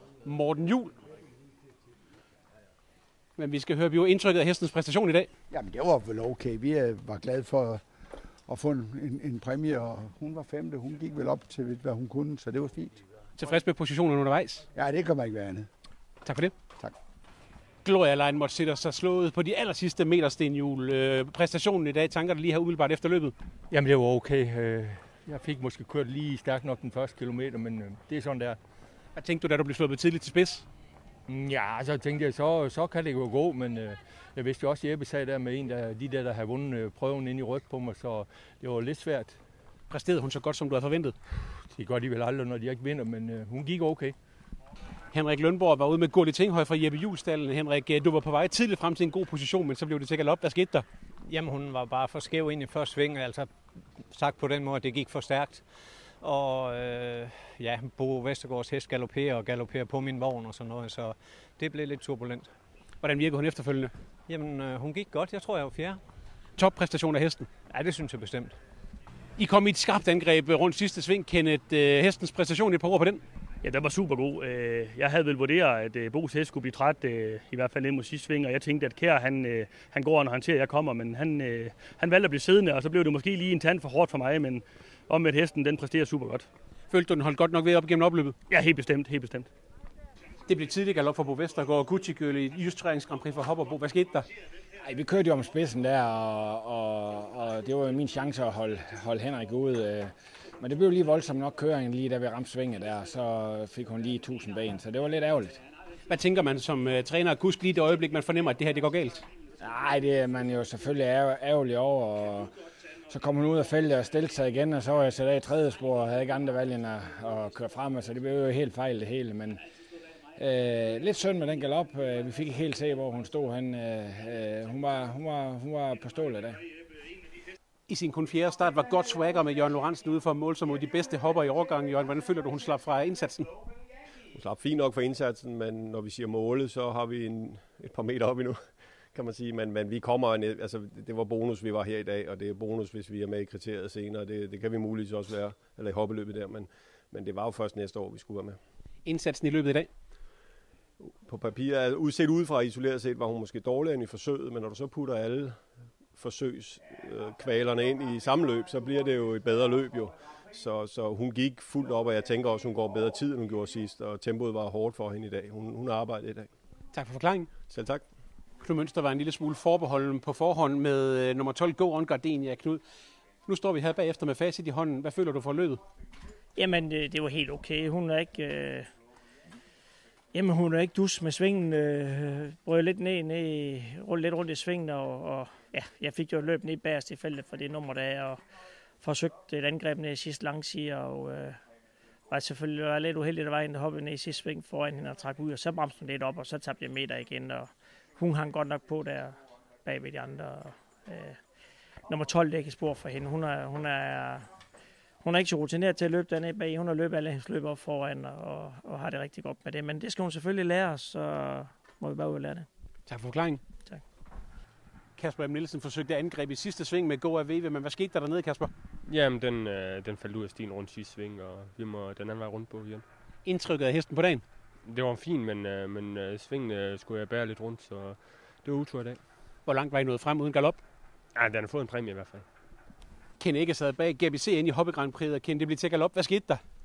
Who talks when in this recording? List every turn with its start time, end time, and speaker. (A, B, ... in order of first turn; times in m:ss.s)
0:00.2-0:01.0 A
0:03.4-0:05.3 A
0:05.5-0:07.8 B
0:08.5-0:12.9 B
0:13.4-0:14.6 A
0:14.8-0:15.7 B
0:16.2-0:16.5 A
0:17.8-0:23.3 A
0:23.7-0:28.6 C
0:29.2-0:30.6 A
0:31.3-0:39.4 C
0:39.9-0:41.2 A
0:41.7-0:44.2 C
0:45.1-0:50.8 A
0:51.3-1:02.5 D
1:03.0-1:03.9 A
1:04.3-1:06.0 D
1:06.6-1:07.5 A
1:07.7-1:08.6 D
1:09.4-1:13.2 A
1:13.6-1:26.5 E
1:26.9-1:28.4 A
1:28.5-1:29.5 E
1:30.5-1:34.3 A
1:34.8-1:45.6 F
1:46.1-1:49.2 A
1:49.6-1:52.5 F
1:53.1-1:59.6 F
2:00.4-2:06.6 F
2:07.9-2:13.5 A
2:14.3-2:28.6 G
2:29.0-2:29.9 A
2:31.0-2:46.5 G
2:46.9-2:47.5 A
2:47.7-2:48.1 G
2:48.6-2:52.8 A
2:53.5-2:55.8 A
2:56.6-2:58.9 H
3:00.3-3:08.4 H
3:09.0-3:11.6 H
3:12.3-3:21.4 H
3:22.1-3:24.5 H
3:25.2-3:32.7 H
3:33.1-3:33.6 A
3:35.2-3:38.7 A
3:39.0-3:43.1 I
3:43.4-3:44.4 A
3:44.8-3:49.2 I
3:49.6-3:50.8 A
3:51.3-3:52.5 I
3:53.4-3:56.6 A